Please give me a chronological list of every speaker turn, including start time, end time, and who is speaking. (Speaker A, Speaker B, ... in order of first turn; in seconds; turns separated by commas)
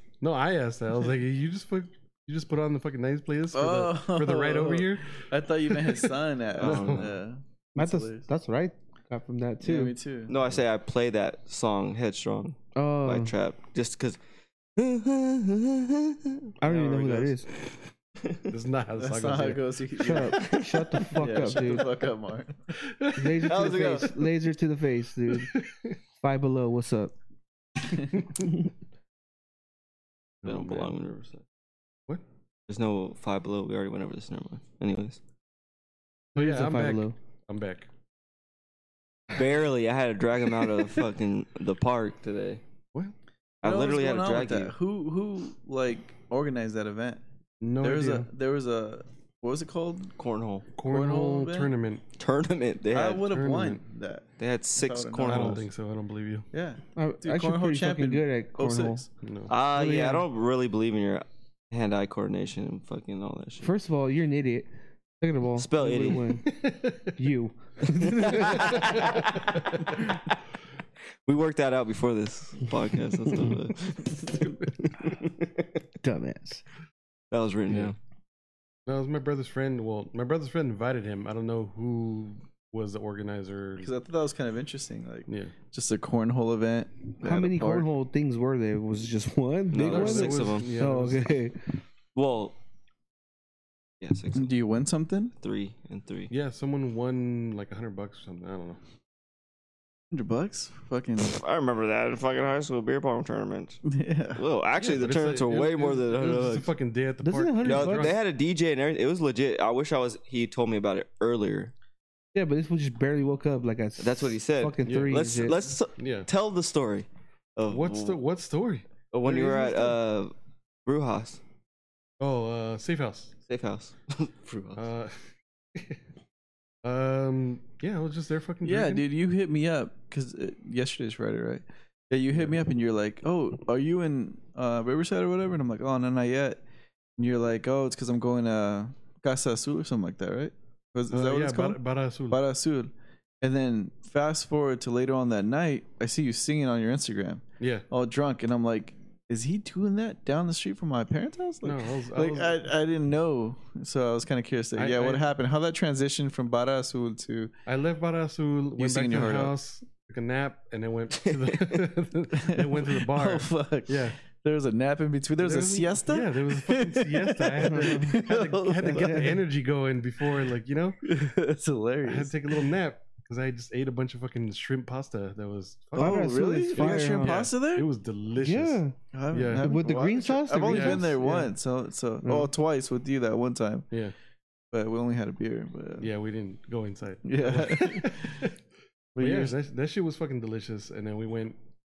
Speaker A: 0.2-7.1, Speaker B: 3.5-8.2, Speaker C: 6.6-7.1, Speaker D: 7.8-9.9, Speaker B: 9.6-10.4, Speaker C: 10.3-14.2, Speaker D: 12.8-13.3, Speaker C: 14.8-16.5, Speaker D: 16.6-17.5, Speaker A: 16.6-17.3, Speaker A: 18.5-19.6, Speaker B: 19.0-22.6, Speaker D: 20.0-21.9, Speaker A: 22.8-23.4, Speaker D: 23.1-25.5, Speaker C: 23.4-24.3, Speaker A: 25.3-25.9, Speaker D: 26.2-27.1, Speaker D: 28.4-28.7, Speaker A: 30.4-30.9, Speaker C: 30.4-31.4, Speaker C: 32.7-35.2, Speaker A: 36.4-37.9, Speaker D: 36.4-37.1, Speaker C: 39.3-42.6, Speaker C: 43.6-44.7, Speaker B: 43.6-47.2, Speaker A: 47.6-48.3, Speaker B: 47.8-50.1, Speaker C: 50.2-50.7, Speaker A: 50.8-52.0, Speaker B: 50.9-51.7, Speaker C: 52.2-53.3, Speaker B: 52.9-55.6, Speaker A: 53.2-53.8, Speaker C: 54.4-55.6, Speaker A: 55.2-56.5, Speaker B: 56.5-59.1, Speaker D: 57.0-59.0, Speaker A: 59.2-59.5, Speaker C: 59.5-63.7, Speaker D: 59.6-60.3, Speaker D: 63.6-64.7, Speaker D: 65.2-66.6, Speaker C: 65.6-66.5, Speaker A: 66.5-67.1, Speaker D: 67.1-69.1, Speaker C: 67.9-70.3, Speaker C: 71.3-75.7, Speaker D: 76.0-76.6, Speaker C: 77.3-78.0, Speaker A: 77.7-77.9, Speaker A: 78.9-83.9, Speaker B: 83.8-87.9, Speaker A: 85.3-85.5, Speaker D: 87.2-91.7, Speaker C: 89.7-90.8, Speaker A: 89.8-91.3, Speaker C: 92.2-92.6, Speaker C: 94.0-94.5, Speaker B: 94.3-95.3, Speaker C: 95.4-96.3, Speaker A: 96.3-98.8, Speaker B: 100.1-101.4, Speaker C: 101.2-103.8, Speaker B: 103.8-104.4, Speaker C: 104.3-106.7, Speaker A: 104.8-108.2, Speaker D: 107.2-108.1, Speaker C: 107.6-111.7, Speaker D: 112.3-115.6, Speaker C: 114.0-118.2, Speaker A: 114.8-115.2, Speaker A: 116.0-116.3, Speaker A: 117.7-120.0, Speaker C: 119.1-120.3, Speaker C: 120.8-121.4, Speaker A: 122.2-123.3, Speaker C: 123.5-124.8, Speaker A: 124.8-125.2, Speaker A: 126.8-129.1, Speaker B: 128.6-136.6, Speaker B: 137.2-141.8, Speaker A: 141.1-142.4, Speaker B: 142.3-157.5, Speaker A: 151.6-152.7, Speaker A: 154.8-155.2, Speaker A: 157.7-164.2, Speaker B: 158.8-159.5, Speaker C: 161.2-161.8, Speaker B: 162.3-169.4, Speaker A: 165.4-171.0, Speaker D: 167.7-168.2, Speaker D: 168.9-169.4, Speaker B: 171.0-172.7, Speaker A: 172.1-178.8, Speaker D: 175.9-177.3, Speaker B: 175.9-177.9, Speaker D: 178.4-178.9, Speaker B: 179.1-183.8, Speaker A: 179.3-179.7, Speaker D: 179.5-181.2, Speaker A: 180.7-181.5, Speaker D: 182.2-182.5, Speaker B: 184.7-186.1, Speaker A: 186.0-188.5, Speaker B: 187.2-188.4, Speaker B: 189.2-189.6, Speaker A: 189.2-191.6